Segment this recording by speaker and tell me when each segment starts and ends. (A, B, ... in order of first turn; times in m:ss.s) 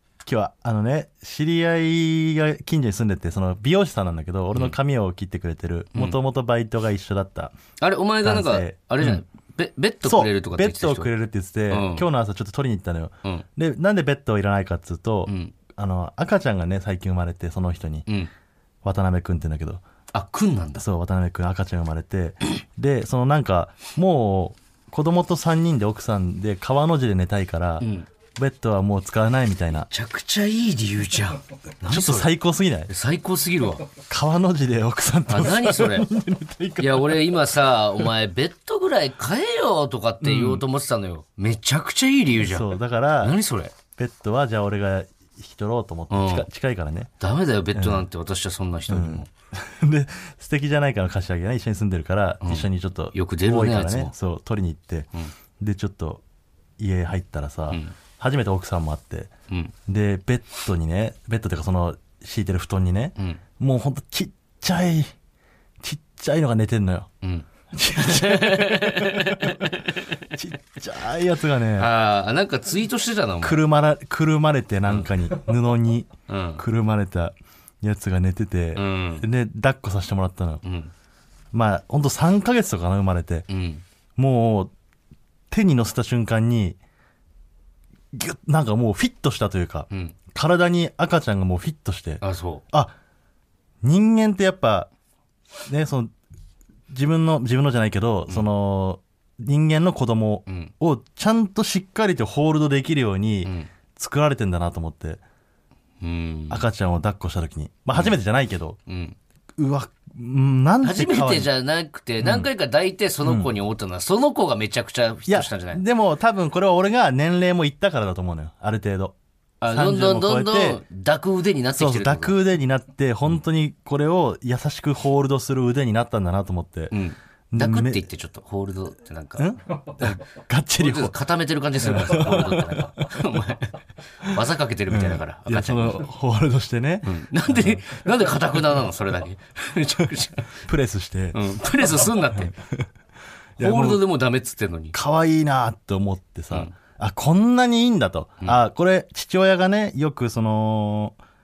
0:00.2-0:07.6 A
0:05.9-0:06.2 B
0:07.8-0:11.1 B
0:08.2-0:09.2 A
0:10.0-0:18.0 A
0:11.7-0:12.0 B
0:15.3-0:15.5 B
0:18.8-0:19.8 A
0:20.1-0:20.9 B
0:20.8-0:29.9 A
0:27.8-0:28.1 B
0:29.9-0:32.3 B
0:31.8-0:32.9 A
0:32.9-0:33.9 B
0:34.0-0:37.3 A
0:35.3-0:36.1 B
0:36.8-0:43.8 B
0:40.2-0:40.6 A
0:42.4-0:43.4 A
0:44.0-0:47.1 A
0:46.1-0:46.5 B
0:47.2-0:49.3 B
0:47.8-0:48.0 A
0:48.9-0:56.2 A
0:52.4-0:54.1 B
0:56.8-0:59.3 A
0:59.9-1:05.1 A
1:05.8-1:07.1 A
1:07.2-1:10.3 B
1:07.7-1:09.7 A
1:10.3-1:11.9 A
1:11.8-1:13.6 B
1:13.4-1:20.6 A
1:16.3-1:16.6 B
1:18.8-1:19.2 B
1:20.6-1:20.9 B
1:21.5-1:23.5 A
1:23.5-1:23.8 B
1:24.2-1:24.7 A
1:25.5-1:26.8 A
1:28.1-1:32.9 A
1:32.2-1:32.6 B
1:33.8-1:34.9 A
1:35.7-1:36.1 A
1:36.9-1:45.2 A
1:40.5-1:40.7 B
1:43.4-1:43.7 B
1:46.0-1:46.6 B
1:46.5-1:48.8 A
1:48.9-1:49.2 B
1:49.6-1:51.5 A
1:50.8-1:55.8 B
1:52.2-1:52.5 A
1:53.2-1:53.5 A
1:55.3-1:59.2 A
1:59.6-2:02.4 B
1:59.7-2:00.8 A
2:01.7-2:06.9 A
2:06.9-2:10.2 B
2:07.5-2:08.0 A
2:09.4-2:11.2 A
2:10.8-2:16.1 B
2:11.8-2:13.2 A
2:14.9-2:17.8 A
2:17.0-2:20.6 B
2:20.6-2:21.4 A
2:21.3-2:22.5 B
2:22.0-2:22.9 A
2:23.6-2:24.0 A
2:23.6-2:25.0 B
2:24.9-2:31.2 A